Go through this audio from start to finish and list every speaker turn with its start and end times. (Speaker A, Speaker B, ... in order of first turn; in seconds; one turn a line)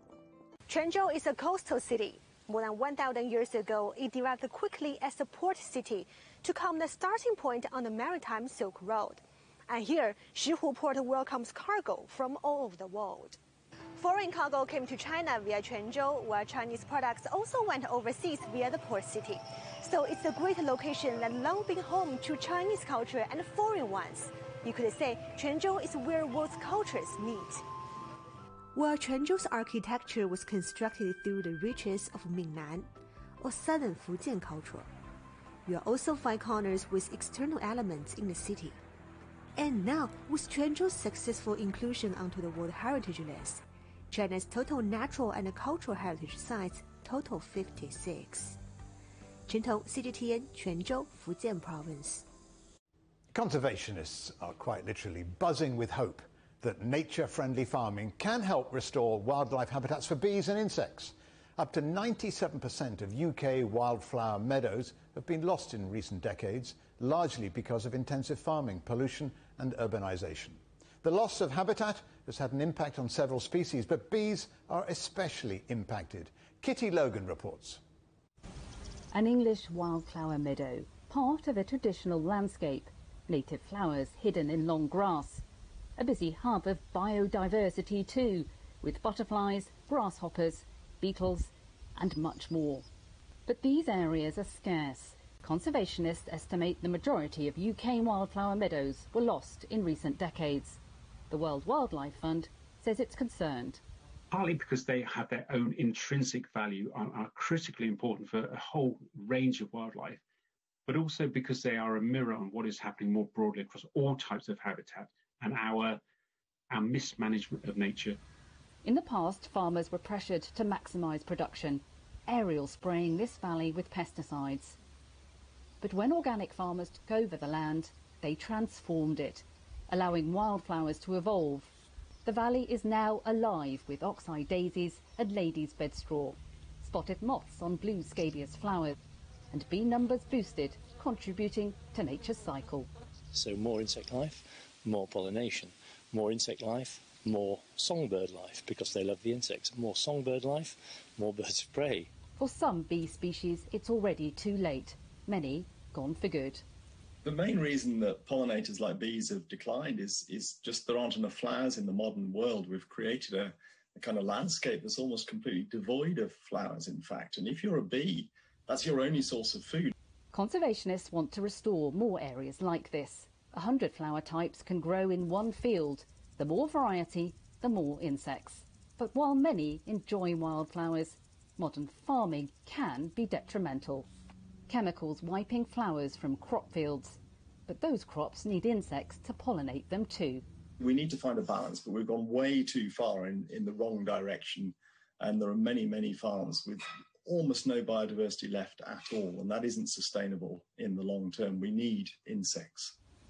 Speaker A: 0.7-13.4
Speaker A: 14.0-27.6
Speaker B: 28.9-32.8
Speaker B: 33.7-34.9
Speaker B: 35.8-38.8
Speaker B: 39.8-43.6
Speaker B: 44.2-48.6
Speaker B: 49.6-52.2
Speaker C: 53.3-77.8
Speaker D: 79.1-85.4
Speaker D: 86.0-92.9
Speaker D: 93.5-100.8
Speaker D: 101.3-103.8
Speaker E: 104.3-110.2
Speaker E: 110.9-116.0
Speaker E: 116.7-118.2
Speaker D: 118.8-124.8
Speaker D: 125.8-131.7
Speaker D: 132.2-138.9
Speaker D: 139.5-142.9
Speaker F: 143.3-152.1
Speaker D: 152.4-156.6
Speaker G: 157.2-169.9
Speaker D: 170.3-184.1
Speaker D: 184.7-190.4
Speaker G: 190.8-202.9